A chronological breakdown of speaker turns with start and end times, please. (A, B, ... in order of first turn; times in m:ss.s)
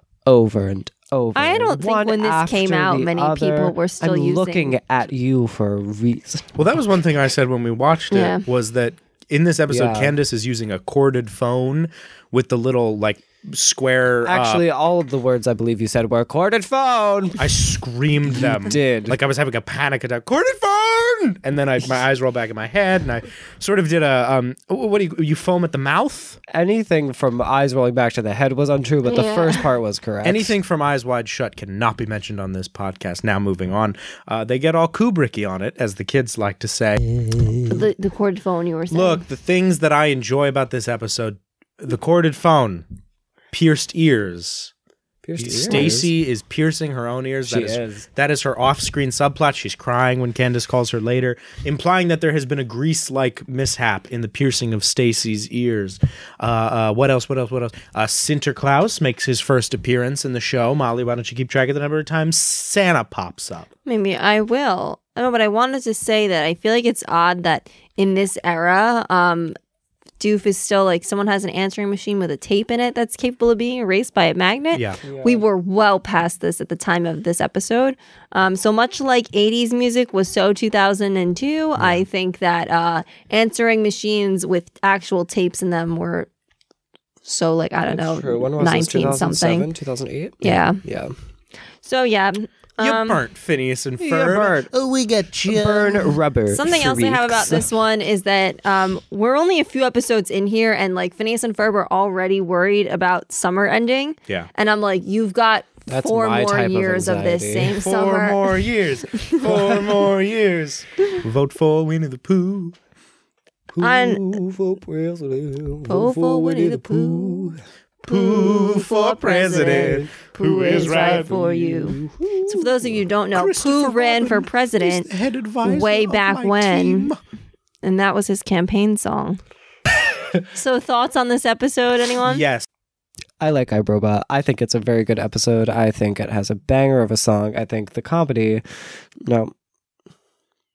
0:00.3-0:06.5 A
0:01.4-0:04.8 B
0:06.6-0:14.6 C
0:08.1-0:08.4 B
0:09.7-0:10.1 A
0:14.2-0:17.6 A
0:17.4-0:26.4 C
0:18.3-0:19.2 A
0:26.5-0:30.5 A
0:29.0-0:29.7 B
0:30.2-0:37.0 C
0:37.2-0:37.6 A
0:37.7-0:39.2 B
0:38.9-0:42.8 C
0:43.5-0:44.7 C
0:45.2-0:46.1 A
0:45.4-1:03.7 C
0:47.5-0:48.1 A
1:03.9-1:09.6 B
1:10.2-1:26.3 B
1:14.7-1:15.0 C
1:15.0-1:15.4 A
1:21.8-1:22.0 C
1:27.2-1:29.7 B
1:27.9-1:31.1 A
1:30.4-1:30.8 B
1:31.8-1:33.2 B
1:32.8-1:36.2 C
1:34.0-1:34.7 A
1:35.5-1:37.7 A
1:36.5-1:48.5 B
1:45.9-1:47.8 A
1:47.8-1:52.8 C
1:49.2-1:49.4 B
1:49.4-1:49.9 A
1:53.8-1:57.6 A
1:53.8-1:54.2 B
1:55.9-2:05.1 B
1:58.1-2:01.4 C
1:59.5-2:00.1 A
2:00.6-2:02.9 A
2:03.3-2:07.2 C
2:05.6-2:07.1 B
2:07.8-2:09.4 B
2:10.5-2:12.4 B
2:12.2-2:12.7 C
2:13.4-2:19.5 A